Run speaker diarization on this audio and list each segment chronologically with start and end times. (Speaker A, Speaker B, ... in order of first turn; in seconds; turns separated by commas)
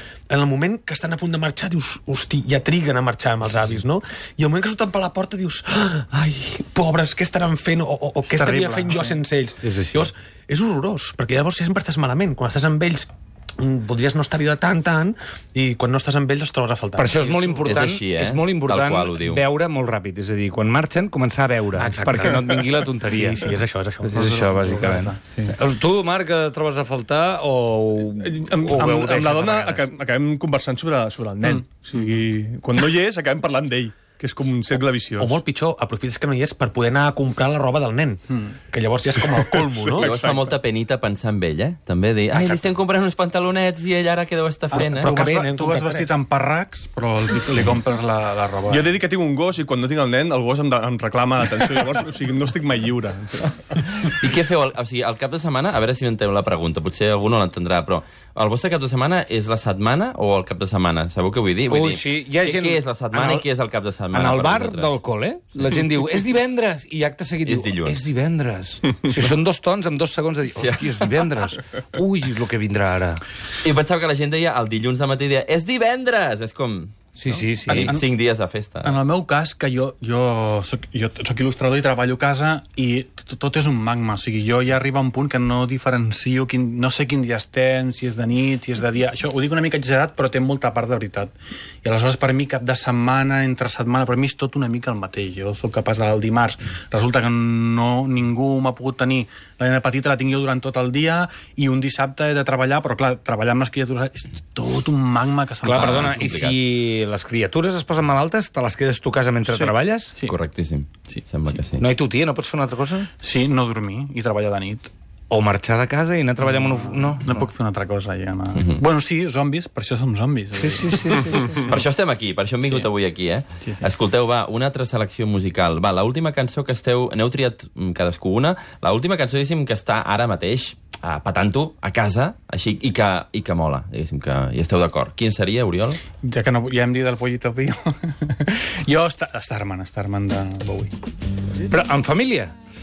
Speaker A: 0.3-17.6, Speaker B: 8.3-9.1, Speaker C: 9.6-10.1, Speaker C: 16.9-29.9, Speaker D: 17.6-19.4, Speaker A: 21.8-24.2, Speaker B: 24.1-25.5, Speaker E: 28.1-35.4, Speaker B: 31.4-32.1, Speaker A: 35.2-40.1, Speaker E: 39.7-40.6, Speaker D: 40.0-45.1, Speaker A: 44.7-46.1, Speaker B: 45.0-48.9, Speaker E: 48.7-53.6, Speaker D: 54.0-65.0, Speaker C: 61.7-63.5, Speaker C: 64.1-73.2, Speaker D: 67.5-68.0, Speaker D: 70.6-71.0, Speaker D: 73.6-79.0, Speaker C: 77.2-77.9, Speaker B: 77.7-78.1, Speaker B: 78.8-91.3, Speaker B: 91.8-106.4, Speaker C: 105.6-110.1, Speaker D: 105.7-106.6, Speaker B: 109.5-110.3, Speaker D: 110.2-111.8, Speaker C: 111.8-113.1, Speaker B: 113.2-114.9, Speaker C: 115.3-117.5, Speaker B: 116.7-121.8, Speaker D: 118.5-118.8, Speaker C: 120.6-121.6, Speaker D: 121.6-136.0, Speaker B: 136.2-140.9, Speaker C: 141.7-142.5